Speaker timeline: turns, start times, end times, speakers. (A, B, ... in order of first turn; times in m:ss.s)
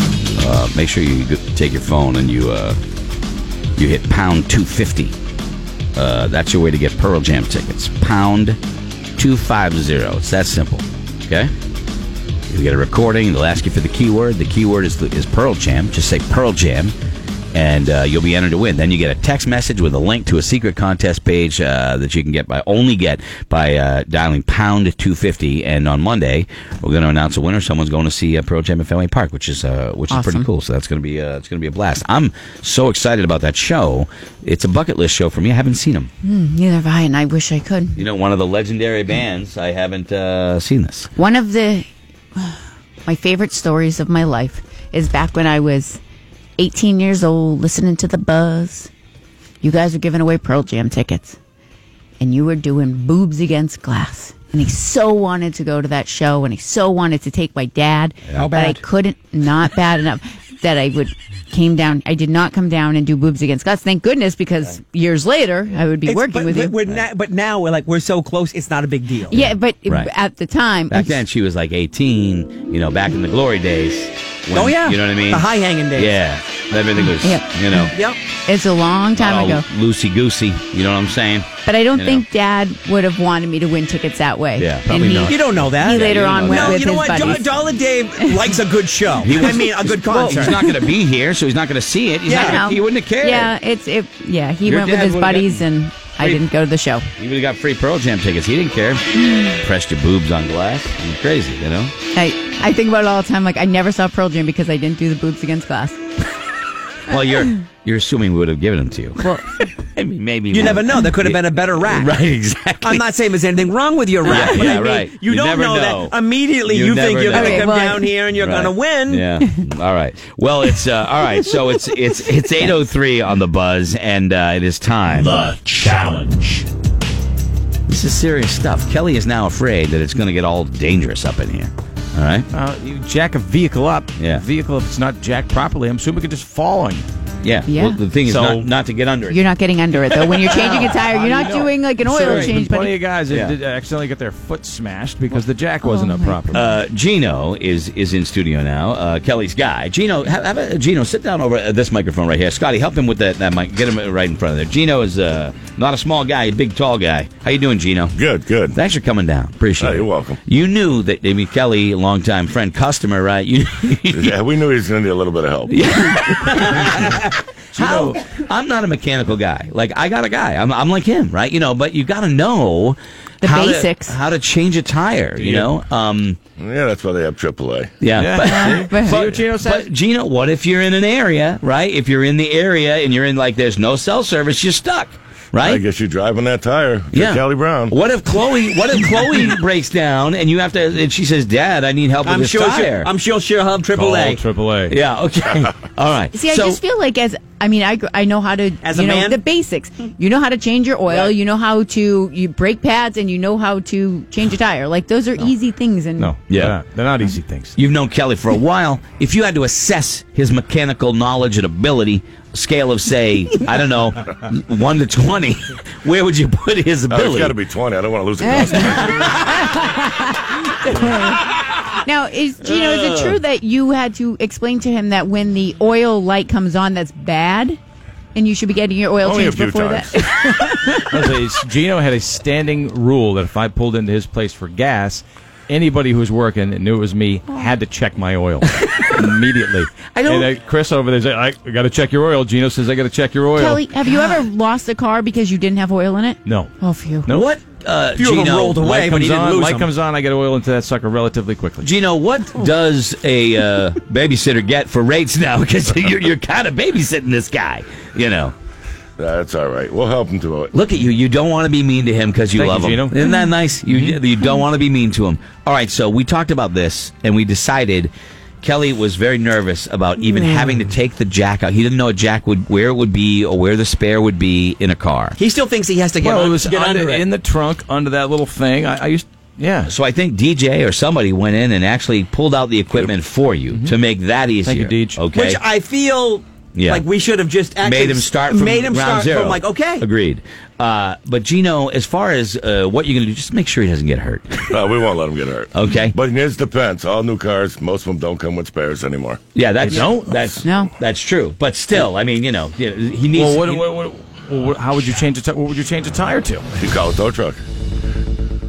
0:00.4-0:02.8 A
0:03.8-0:05.2 A
0:06.0-0:08.6 A
0:09.2-0:11.5 A
0:12.5-0:17.0 A
0:17.5-0:36.1 A
0:30.1-0:30.5 B
0:36.2-0:38.0 B
0:38.0-0:41.1 A
0:41.2-0:46.0 B
0:46.6-0:48.9 B
0:49.6-0:51.4 B
0:52.2-1:06.8 B
0:58.4-0:58.8 C
1:06.0-1:09.4 C
1:09.3-1:11.2 B
1:09.3-1:10.1 A
1:10.9-1:15.4 A
1:14.6-1:16.2 C
1:16.0-1:18.0 A
1:17.2-1:19.6 B
1:17.9-1:18.2 C
1:19.2-1:22.2 A
1:21.7-1:27.6 B
1:24.6-1:25.3 A
1:24.9-1:25.7 D
1:25.3-1:30.6 C
1:25.8-1:27.4 A
1:28.2-1:28.6 B
1:29.2-1:33.5 A
1:30.4-1:30.8 B
1:32.3-1:32.6 C
1:32.3-1:37.0 B
1:34.6-1:35.7 A
1:37.2-1:41.9 A
1:42.1-1:46.0 B
1:47.1-1:53.0 A
1:50.5-1:52.1 C
1:52.8-1:59.3 C
1:54.2-1:56.2 A
1:56.7-1:57.7 A
1:57.3-1:58.1 B
1:58.4-2:06.4 A
2:07.9-2:12.5 A
2:12.5-2:17.1 D
2:14.2-2:14.4 A
2:17.4-2:19.4 A
2:17.7-2:18.0 B
2:18.2-2:18.7 D
2:19.3-2:23.0 B
2:20.2-2:26.6 D
2:22.2-2:22.5 A
2:23.3-2:23.6 A
2:25.8-2:26.6 B
2:26.5-2:38.2 A
2:38.2-2:38.8 E
2:38.7-2:44.4 A
2:39.8-2:40.4 E
2:44.1-2:46.1 E
2:45.7-2:56.4 A
2:47.7-2:48.2 D
2:53.4-2:54.2 B
2:55.4-2:55.7 D
2:56.6-2:57.9 E
2:58.0-3:05.8 A
2:58.2-2:59.9 D
2:58.4-2:59.2 B
3:05.6-3:08.0 E
3:07.1-3:13.1 A
3:12.2-3:14.4 C
3:13.9-3:15.0 D
3:14.9-3:16.8 A
3:16.3-3:26.4 B
3:18.8-3:19.4 C
3:26.2-3:27.8 D
3:26.5-3:26.8 A
3:27.8-3:37.6 A
3:37.1-3:39.5 E
3:38.5-3:41.4 B
3:38.6-3:39.8 A
3:41.0-3:41.8 A
3:42.0-3:47.8 B
3:42.6-3:43.4 A
3:48.3-3:51.0 B
3:49.2-3:50.3 E
3:50.9-4:04.5 D
3:58.7-3:59.3 A
4:00.1-4:00.5 A
4:03.6-4:07.3 B
4:06.4-4:06.7 D
4:07.3-4:08.9 A
4:08.2-4:09.8 C
4:08.8-4:11.9 D
4:11.8-4:18.5 A
4:19.2-4:20.7 E
4:20.7-4:35.4 A
4:22.5-4:23.2 D
4:23.9-4:24.2 D
4:35.4-4:37.2 C
4:36.2-4:39.9 D
4:39.9-4:45.6 A
4:44.6-4:45.2 D
4:45.3-4:50.0 C
4:46.8-4:47.0 A
4:47.8-4:54.8 A
4:54.7-4:59.4 E
4:55.7-4:56.2 A
4:59.5-5:03.8 A
4:59.8-5:00.3 D
5:00.6-5:00.9 B
5:03.3-5:06.7 D
5:06.8-5:07.6 E